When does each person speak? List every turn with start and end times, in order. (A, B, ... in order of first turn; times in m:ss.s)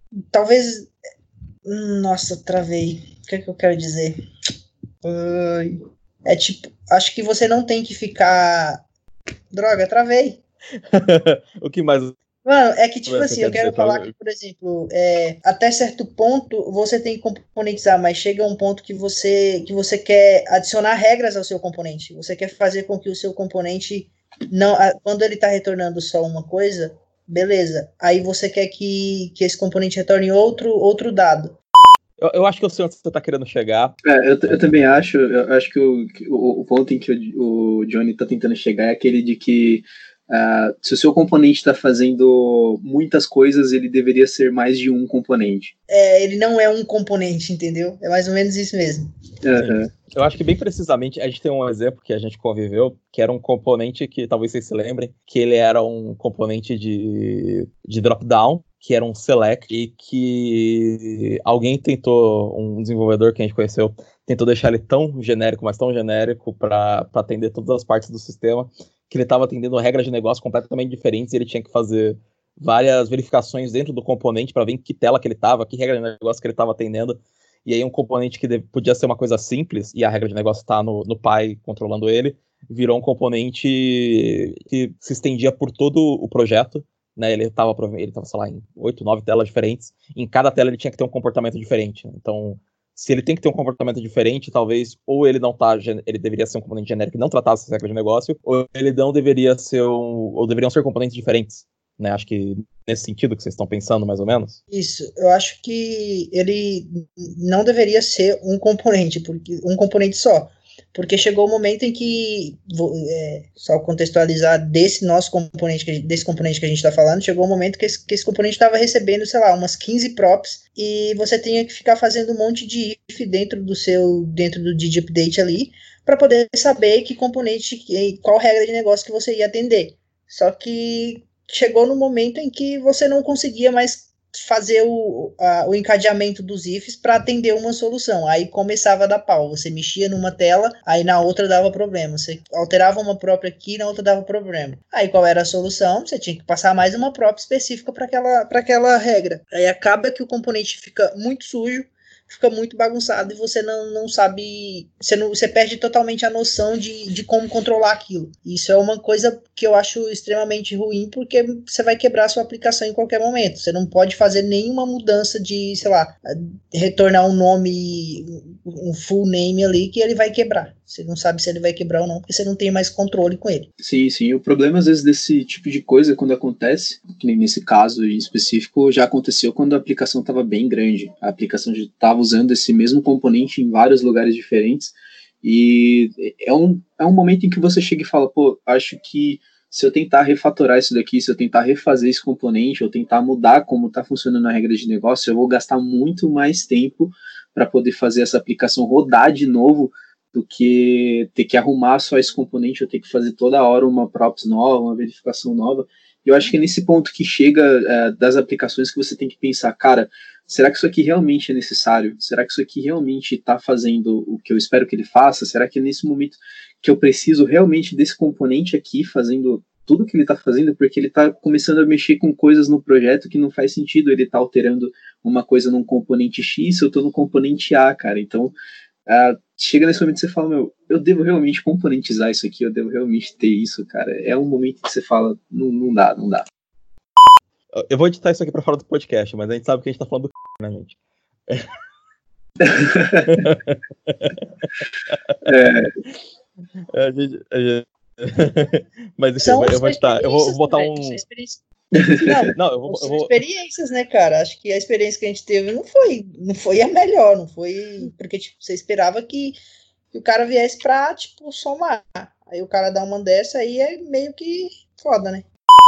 0:00.3-0:00.9 A
0:01.7-0:04.2 A
0:05.0-0:08.8 A
0:09.5-0:10.4 A
0:10.9-0:12.2 B
0:12.4-0:31.6 A
0:13.1-0:14.1 B
0:32.2-0:34.0 B
0:34.0-0:45.7 C
0:45.9-0:49.1 A
0:49.4-0:49.9 C
0:49.6-1:44.6 B
1:44.7-2:53.7 A
2:53.8-3:48.5 C
3:49.1-3:56.4 C
3:57.7-4:01.0 B
4:02.6-4:03.4 C
4:03.3-4:04.4 B
4:05.1-4:05.4 B
4:05.5-4:05.9 C
4:06.9-4:11.2 B
4:09.4-4:11.6 A
4:12.0-4:12.2 C
4:12.2-4:19.6 A
4:12.5-4:13.4 B
4:20.1-4:25.5 A